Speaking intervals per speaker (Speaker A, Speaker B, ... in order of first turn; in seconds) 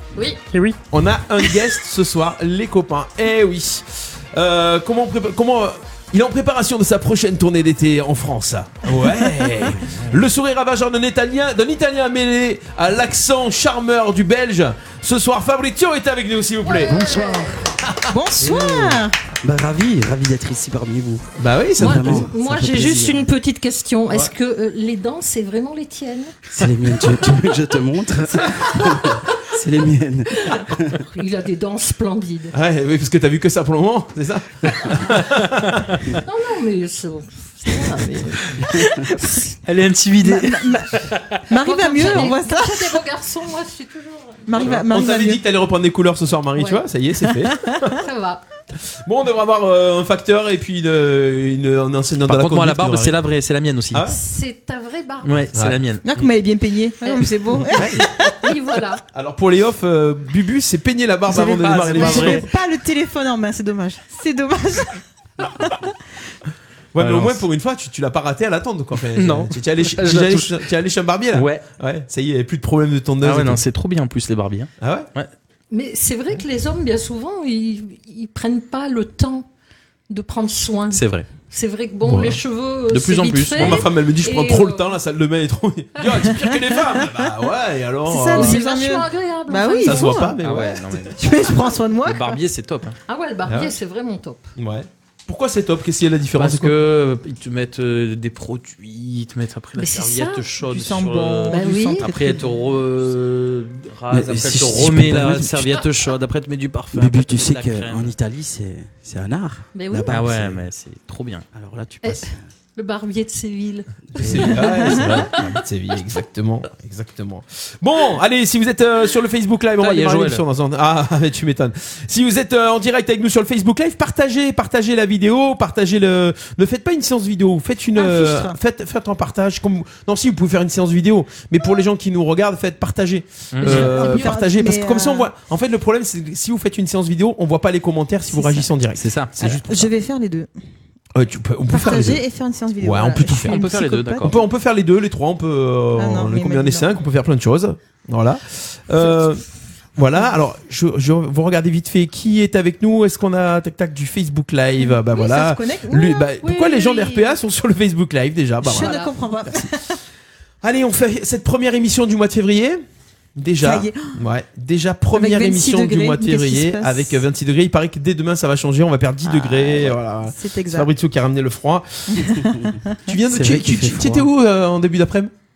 Speaker A: 0.5-0.8, 39.7-41.4, 52.2-54.1, 55.2-56.0, 61.6-62.5, 67.0-67.4, 69.2-70.6, 71.3-71.7, 73.2-75.3, 80.9-81.3, 82.9-83.8, 90.4-93.0, 96.4-108.1, 110.1-111.5, 119.8-120.4, 133.5-134.1, 139.0-139.4, 143.4-144.4
Speaker B: 0.9-17.1, 21.4-22.3, 32.5-36.0, 44.6-48.0, 48.9-53.2, 55.5-55.8, 57.7-58.1, 59.1-62.5, 66.9-73.6, 74.8-75.1, 82.0-82.4, 83.6-88.7, 89.8-91.0, 93.5-93.7, 94.6-96.8, 114.2-139.9, 141.1-142.2, 142.8-143.6, 144.2-149.4, 150.0-159.7, 160.6-162.8, 163.4-172.3, 173.1-175.3
Speaker C: 9.0-9.7, 18.1-19.2, 40.2-40.9, 41.5-43.0, 44.5-45.4, 56.0-58.4, 61.3-65.9, 88.1-90.4, 91.2-92.4, 100.7-102.5, 128.0-128.6, 133.6-135.3, 138.3-138.7, 139.4-140.5, 141.7-144.3, 146.0-146.9, 155.0-156.3, 158.6-160.0, 163.6-164.2, 165.1-167.2, 170.2-170.9, 172.2-173.0
Speaker D: 16.7-17.4, 21.8-26.4, 28.3-29.3, 30.4-32.5, 36.2-39.4, 41.6-44.6, 46.6-46.8, 48.0-48.4, 54.0-55.5, 57.0-59.0, 75.7-79.5, 80.1-84.9, 88.3-90.2, 93.1-94.5, 99.8-100.5, 101.5-102.1, 109.7-110.2, 112.0-115.2, 156.4-157.4, 158.7-159.1
Speaker E: 16.9-17.8, 18.5-23.3, 26.5-31.0, 104.1-105.8, 106.9-110.7, 111.5-112.4, 114.2-115.6, 173.3-174.3